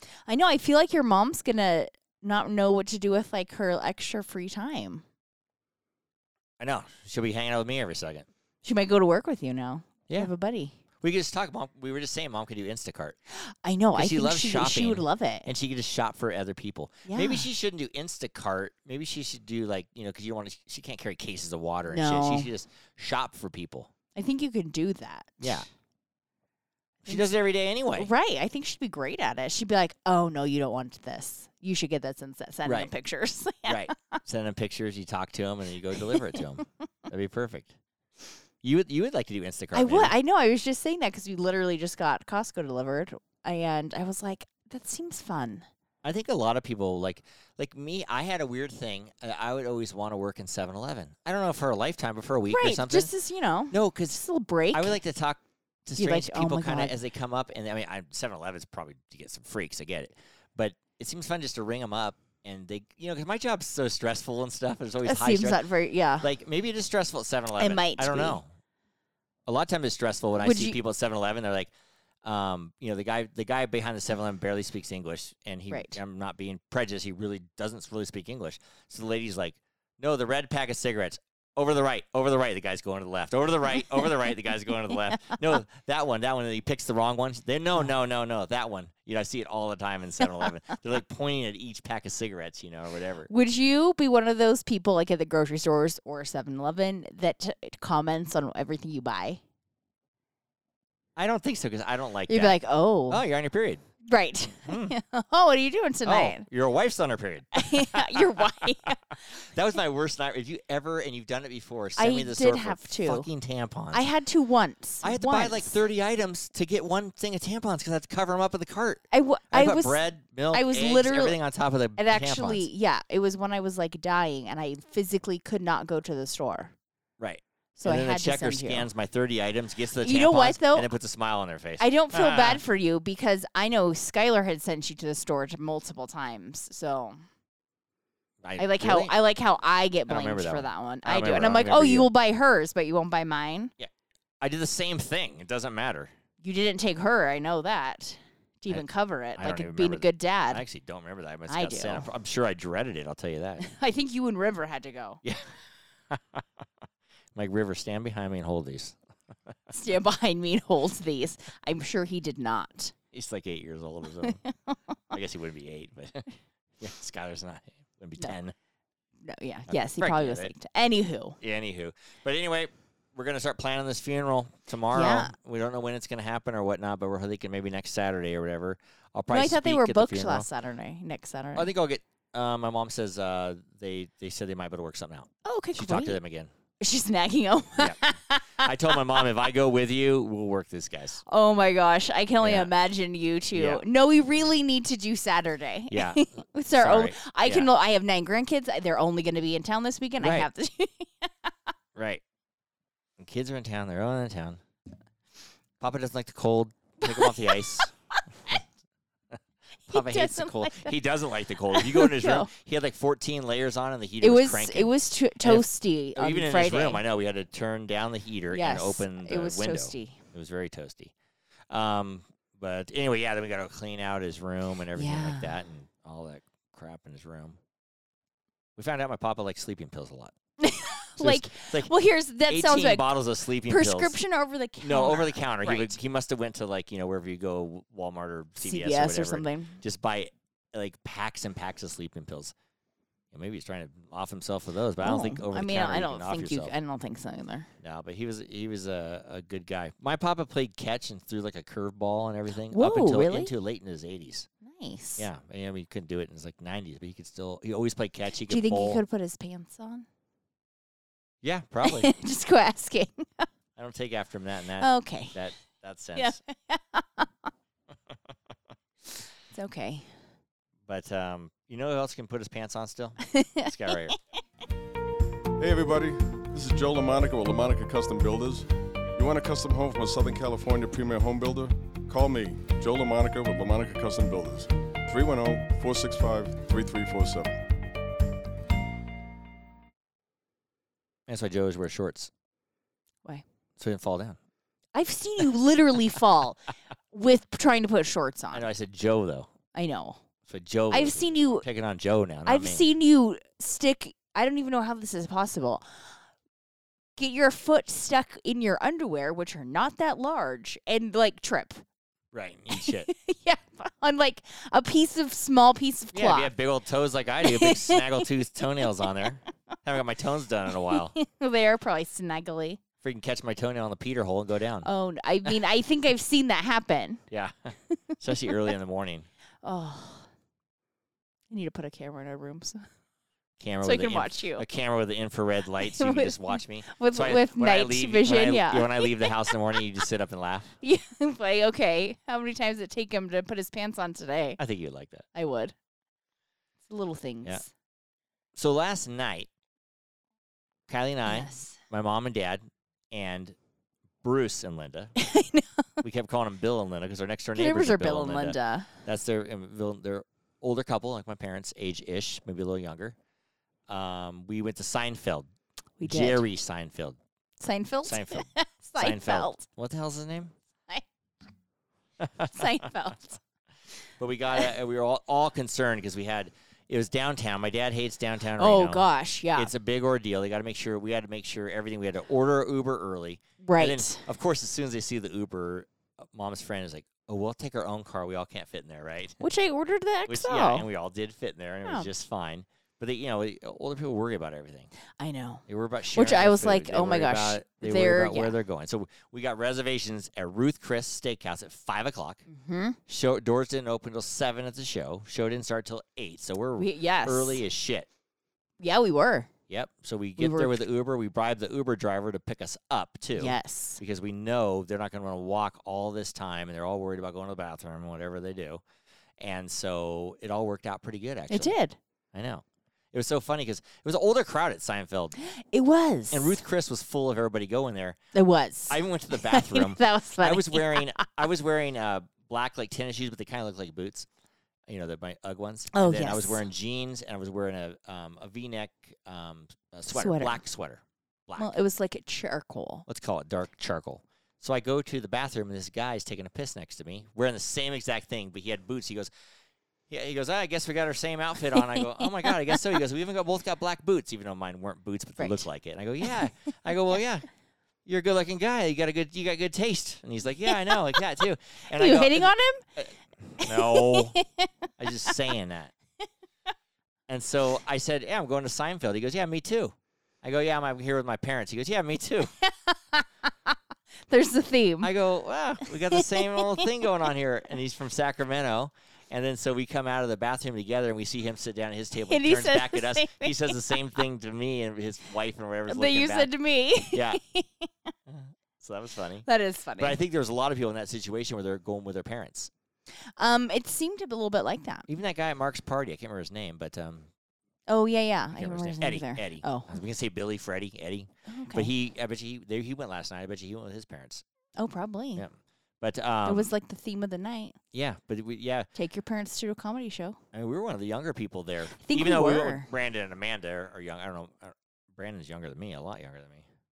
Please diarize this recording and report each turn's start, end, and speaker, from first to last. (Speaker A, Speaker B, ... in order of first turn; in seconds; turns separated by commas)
Speaker A: 0.3-5.0, Speaker B: 6.6-8.3, Speaker A: 8.6-10.8, Speaker B: 11.0-13.2, Speaker A: 13.3-15.5, Speaker B: 14.0-23.9, Speaker A: 17.1-17.5, Speaker A: 21.9-22.5, Speaker A: 24.1-25.7, Speaker B: 25.4-25.7, Speaker B: 27.0-28.1, Speaker A: 28.0-34.2, Speaker B: 32.6-32.9, Speaker B: 33.7-37.8, Speaker A: 36.0-36.3, Speaker B: 38.6-40.1, Speaker A: 39.7-45.7, Speaker B: 46.0-53.1, Speaker A: 52.5-55.0, Speaker B: 53.7-54.2, Speaker B: 54.7-65.6, Speaker A: 56.0-57.0, Speaker A: 65.0-66.3, Speaker B: 66.2-68.5, Speaker A: 67.6-68.4, Speaker B: 69.5-71.7, Speaker A: 70.4-70.8, Speaker B: 72.2-93.3, Speaker A: 75.7-76.0, Speaker A: 93.3-99.4, Speaker B: 101.2-102.6, Speaker A: 102.3-103.2, Speaker B: 103.1-103.8, Speaker A: 104.0-106.5, Speaker B: 104.7-105.0, Speaker B: 106.0-108.7, Speaker A: 107.5-109.4, Speaker B: 109.3-114.0, Speaker A: 112.0-113.3, Speaker A: 113.9-115.8, Speaker B: 115.0-122.7, Speaker A: 119.1-120.0, Speaker A: 120.5-121.4, Speaker A: 122.0-126.7, Speaker B: 127.2-132.6, Speaker A: 127.8-128.9, Speaker A: 130.0-130.9, Speaker A: 131.8-137.2, Speaker B: 138.4-139.1, Speaker A: 138.6-143.7, Speaker B: 140.1-142.1, Speaker B: 143.8-146.1, Speaker A: 146.4-150.6, Speaker B: 149.4-153.7, Speaker A: 151.5-152.1, Speaker A: 153.6-155.2, Speaker B: 155.2-155.6, Speaker B: 156.1-156.6, Speaker B: 157.3-159.7, Speaker A: 159.7-162.9, Speaker B: 163.1-164.4, Speaker A: 164.2-164.8, Speaker B: 165.1-166.3, Speaker B: 166.8-168.6, Speaker A: 169.2-171.4, Speaker B: 169.7-170.5, Speaker B: 171.4-180.5, Speaker A: 174.9-175.3, Speaker A: 179.3-181.7, Speaker B: 181.6-186.5, Speaker A: 185.4-186.2, Speaker A: 186.8-189.3, Speaker B: 188.6-191.2, Speaker A: 191.3-201.5, Speaker B: 192.4-192.7, Speaker B: 193.5-193.8, Speaker B: 195.9-197.7, Speaker B: 200.2-200.5, Speaker B: 201.9-202.2, Speaker B: 203.2-204.6, Speaker B: 205.8-207.9, Speaker A: 207.0-207.9, Speaker A: 209.9-211.0, Speaker B: 209.9-221.1, Speaker A: 211.7-212.5, Speaker A: 214.2-217.0, Speaker A: 218.5-220.2, Speaker B: 221.7-227.6, Speaker A: 225.0-225.5, Speaker B: 228.8-230.3, Speaker A: 230.6-236.0, Speaker B: 231.2-231.9, Speaker B: 232.5-234.2, Speaker B: 234.8-242.5, Speaker A: 238.6-239.8, Speaker B: 243.3-246.7, Speaker A: 245.0-247.7, Speaker B: 247.8-254.5, Speaker A: 252.7-253.5, Speaker A: 254.6-255.3, Speaker B: 255.2-259.0, Speaker A: 258.4-260.1, Speaker B: 261.4-262.1, Speaker A: 261.8-263.5, Speaker B: 263.8-266.4, Speaker A: 264.8-265.4, Speaker A: 266.1-267.5, Speaker A: 269.5-270.1, Speaker B: 270.9-274.2, Speaker A: 273.3-274.1, Speaker C: 275.6-287.6, Speaker B: 291.3-292.3, Speaker B: 293.8-294.4, Speaker A: 294.9-298.7, Speaker B: 298.5-299.5, Speaker A: 299.7-300.2, Speaker B: 300.5-302.9, Speaker A: 300.9-301.6, Speaker A: 302.4-305.9, Speaker A: 307.2-311.8, Speaker B: 312.3-313.1, Speaker A: 312.7-316.5, Speaker B: 316.1-321.1, Speaker A: 317.4-318.3, Speaker A: 320.9-322.8, Speaker B: 323.0-324.9, Speaker A: 324.8-327.2, Speaker B: 327.3-329.3, Speaker A: 327.9-328.5, Speaker A: 329.6-330.3, Speaker A: 331.5-332.9, Speaker B: 333.6-340.8, Speaker A: 333.8-334.6, Speaker A: 335.8-339.8, Speaker A: 340.8-344.6, Speaker B: 344.6-345.3, Speaker A: 345.3-345.7, Speaker A: 346.9-347.7, Speaker B: 348.6-349.5, Speaker B: 350.9-353.6, Speaker A: 351.3-351.8, Speaker B: 354.2-355.1, Speaker A: 355.2-356.0, Speaker B: 356.0-363.2, Speaker A: 357.6-358.9, Speaker B: 363.9-365.5, Speaker A: 366.0-366.4, Speaker B: 366.1-367.2, Speaker A: 367.6-369.6, Speaker B: 368.1-370.6, Speaker B: 372.2-372.9, Speaker A: 372.4-373.4, Speaker B: 374.2-389.4, Speaker A: 378.6-379.7, Speaker A: 383.6-384.3, Speaker A: 389.4-390.9, Speaker B: 390.3-394.9, Speaker A: 391.8-392.1, Speaker A: 395.2-398.6, Speaker B: 395.7-402.4, Speaker A: 402.5-403.0, Speaker B: 403.1-408.1, Speaker A: 406.8-407.6, Speaker A: 408.8-409.5, Speaker B: 409.7-418.8, Speaker A: 410.4-410.8, Speaker A: 413.4-414.0, Speaker B: 419.4-421.8, Speaker A: 421.5-422.0, Speaker B: 422.3-425.4, Speaker A: 425.4-426.6, Speaker B: 426.3-428.2, Speaker A: 428.3-431.3, Speaker B: 428.9-434.3, Speaker B: 434.9-441.7, Speaker A: 435.9-436.6, Speaker A: 440.1-440.6, Speaker A: 441.6-443.1, Speaker B: 443.1-449.3, Speaker B: 450.1-457.5, Speaker A: 451.7-452.9, Speaker A: 455.4-455.7, Speaker B: 458.1-464.4, Speaker A: 460.7-461.4, Speaker A: 461.9-462.9, Speaker A: 463.6-465.4, Speaker B: 465.0-465.9, Speaker B: 467.3-472.5, Speaker A: 472.6-473.8, Speaker A: 474.3-475.1, Speaker B: 475.0-486.5, Speaker A: 475.9-477.1, Speaker A: 482.2-484.0, Speaker A: 485.9-488.1, Speaker B: 487.1-487.4, Speaker B: 488.3-489.5, Speaker A: 489.5-490.2, Speaker B: 490.0-492.7, Speaker A: 493.4-495.1, Speaker B: 495.1-497.3, Speaker A: 497.9-499.9, Speaker B: 498.6-504.4, Speaker A: 501.5-501.9, Speaker A: 504.8-505.5, Speaker B: 505.4-506.7, Speaker A: 506.4-507.8, Speaker B: 507.9-508.9, Speaker A: 508.9-510.4, Speaker B: 510.5-516.7, Speaker A: 511.9-512.9